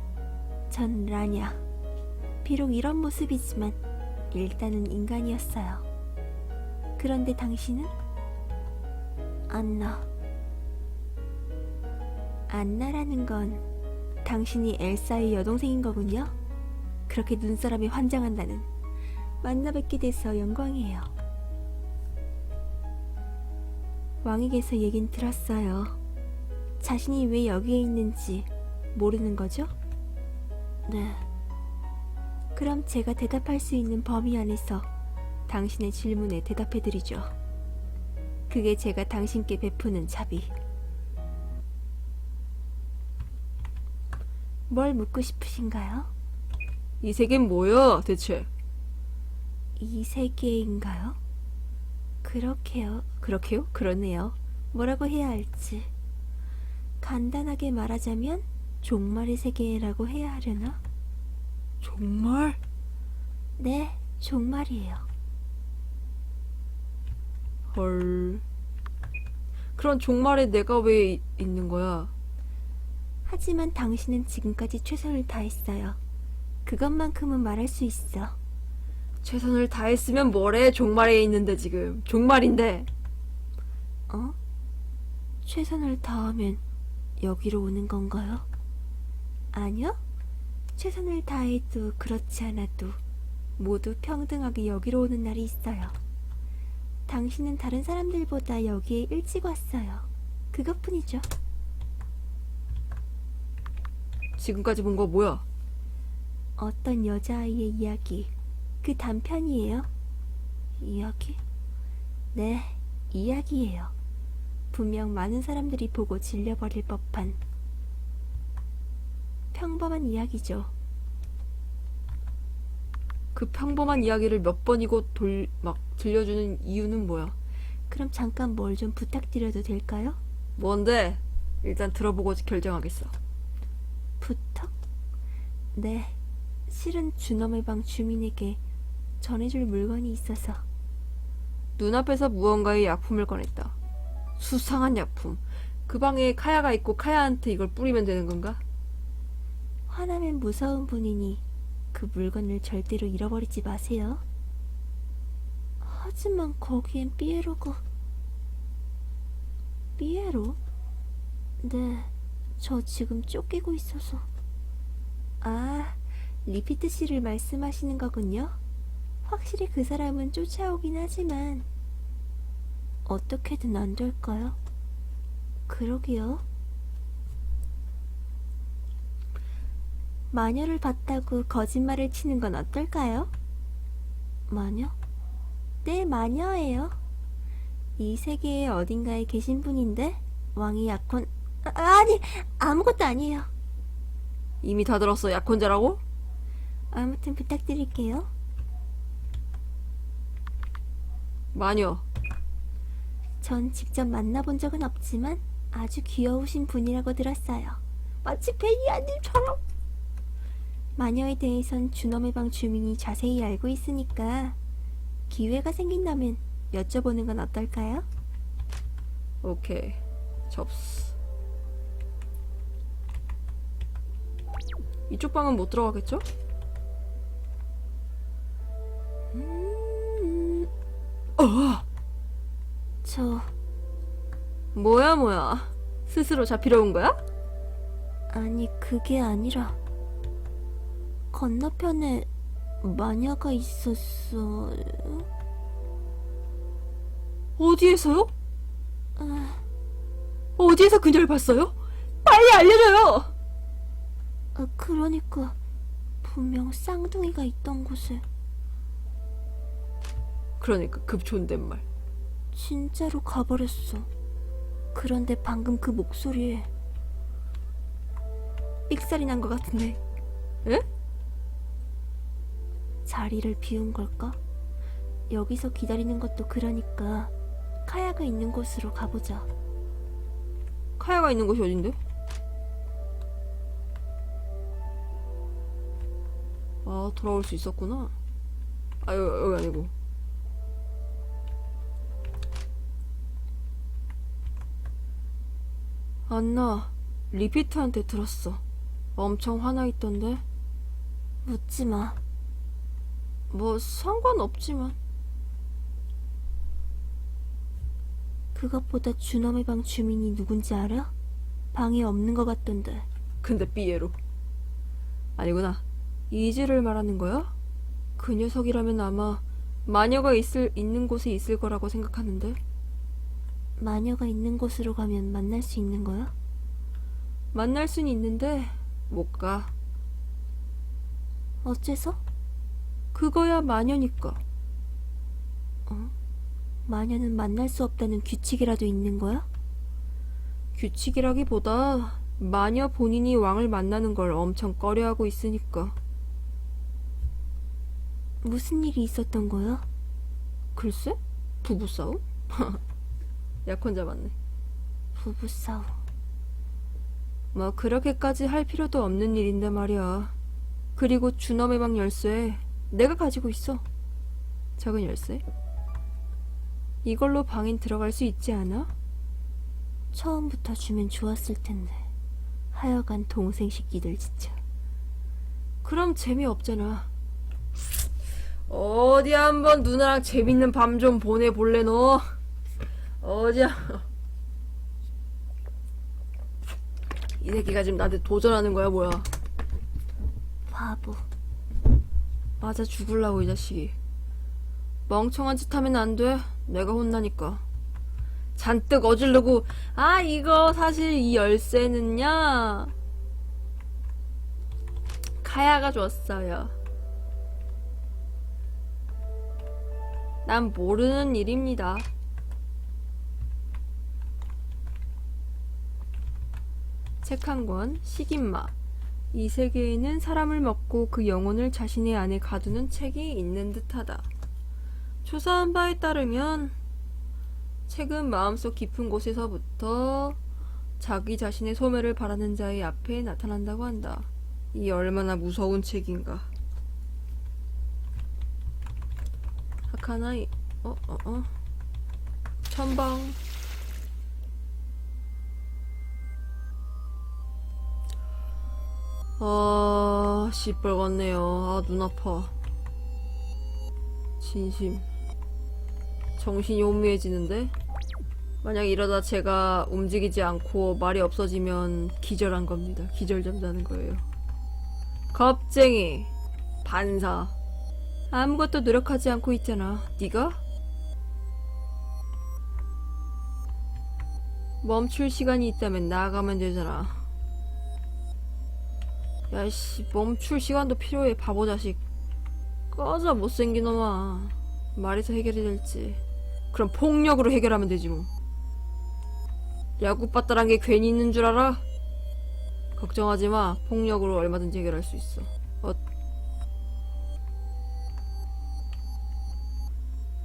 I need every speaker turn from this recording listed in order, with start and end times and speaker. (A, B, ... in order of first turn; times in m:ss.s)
0:00.7-0:01.6 A
0:02.4-0:03.8 A
0:04.3-0:05.8 A
0:07.0-0:07.9 A
0:09.5-0:10.1 A
0:12.5-0:13.6 A
0:14.2-0:16.3 A
0:17.1-0:18.7 A
0:19.4-0:21.1 A
0:24.2-0:26.0 A
0:26.8-0:29.7 A
0:30.9-0:31.3 A
0:32.6-0:34.9 A
0:35.5-0:37.3 A
0:38.5-0:40.5 A
0:44.7-0:46.1 A
0:47.0-0:48.5 B
0:49.8-0:51.2 A
0:52.2-0:55.9 A
0:57.0-1:00.8 A
1:01.8-1:02.6 B
1:03.6-1:05.1 A
1:07.7-1:08.4 B
1:09.8-1:12.1 B
1:13.3-1:16.0 A
1:16.6-1:18.4 A
1:19.2-1:22.9 B
1:24.1-1:24.4 A
1:25.4-1:26.6 A
1:27.2-1:28.5 A
1:29.5-1:30.0 A
1:30.8-1:33.0 A
1:33.6-1:36.0 A
1:37.1-1:41.3 A
1:44.4-1:45.4 B
1:46.6-1:49.9 A
1:50.8-1:51.4 A
1:52.3-1:53.9 A
1:54.7-1:57.4 A
1:59.5-2:00.7 A
2:03.4-2:07.4 B
2:07.9-2:10.2 A
2:10.6-2:13.1 B
2:14.2-2:14.7 A
2:15.7-2:16.2 A
2:16.7-2:18.6 A
2:19.2-2:20.6 A
2:21.8-2:23.8 B
2:24.4-2:28.6 B
2:29.9-2:34.2 A
2:35.8-2:37.8 A
2:40.0-2:40.6 A
2:41.6-2:44.3 A
2:45.4-2:48.6 A
2:49.2-2:51.7 A
2:53.1-2:54.6 A
2:55.7-2:56.4 A
3:00.3-3:03.3 A
3:04.5-3:05.0 A
3:05.8-3:07.0 A
3:08.0-3:13.5 A
3:14.6-3:16.0 B
3:16.9-3:18.3 A
3:21.5-3:22.0 B
3:23.4-3:29.6 A
3:31.0-3:34.6 A
3:35.3-3:38.1 A
3:39.4-3:41.2 B
3:45.1-3:46.2 B
3:49.4-3:50.6 B
3:51.4-3:51.8 B
3:53.0-3:53.5 A
3:54.7-3:57.2 B
3:58.3-3:59.8 A
4:01.3-4:02.3 A
4:02.8-4:05.3 A
4:07.6-4:08.3 B
4:09.2-4:09.6 A
4:10.6-4:13.3 B
4:14.6-4:15.6 A
4:16.2-4:18.2 A
4:20.6-4:21.8 B
4:22.5-4:24.1 A
4:24.9-4:26.7 A
4:28.9-4:30.0 A
4:33.1-4:34.4 A
4:35.3-4:37.3 A
4:37.8-4:39.5 A
4:41.0-4:42.0 B
4:46.8-4:48.1 B
4:49.0-4:49.9 B
4:56.3-4:58.6 B
4:59.2-5:00.4 B
5:01.4-5:02.2 A
5:03.5-5:05.0 B
5:08.5-5:11.1 A
5:11.7-5:13.1 A
5:13.4-5:14.2 B
5:15.4-5:17.5 B
5:18.2-5:22.6 B
5:23.8-5:26.3 A
5:27.5-5:29.7 B
5:31.6-5:32.2 A
5:33.1-5:34.4 B
5:35.9-5:36.1 A
5:36.9-5:39.5 A
5:40.8-5:46.0 B
5:48.4-5:49.8 A
5:50.8-5:52.8 B
5:53.7-5:54.4 B
5:55.2-5:56.0 A
5:57.5-6:00.3 B
6:01.0-6:03.8 B
6:04.8-6:05.4 B
6:07.0-6:08.9 B
6:10.1-6:12.1 A
6:12.7-6:14.6 A
6:15.8-6:17.1 B
6:18.7-6:22.3 B
6:23.2-6:24.0 B
6:27.4-6:29.3 B
6:30.7-6:31.3 A
6:32.6-6:34.0 B
6:35.1-6:37.6 B
6:38.6-6:42.9 B
6:45.4-6:46.7 B
6:50.4-6:52.1 B
6:57.2-6:58.7 B
6:59.3-7:04.3 B
7:05.2-7:06.8 B
7:07.9-7:10.4 B
7:11.0-7:16.5 B
7:19.9-7:21.5 B
7:22.7-7:23.4 B
7:29.4-7:32.5 B
7:34.4-7:35.1 B
7:36.4-7:37.7 B
7:38.6-7:44.2 B
7:45.3-7:46.3 B
7:46.8-7:47.5 B
7:48.3-7:50.6 B
7:54.8-7:57.2 B
7:59.5-8:02.0 B
8:02.9-8:06.2 B
8:06.7-8:08.3 B
8:10.0-8:11.8 B
8:13.0-8:16.0 B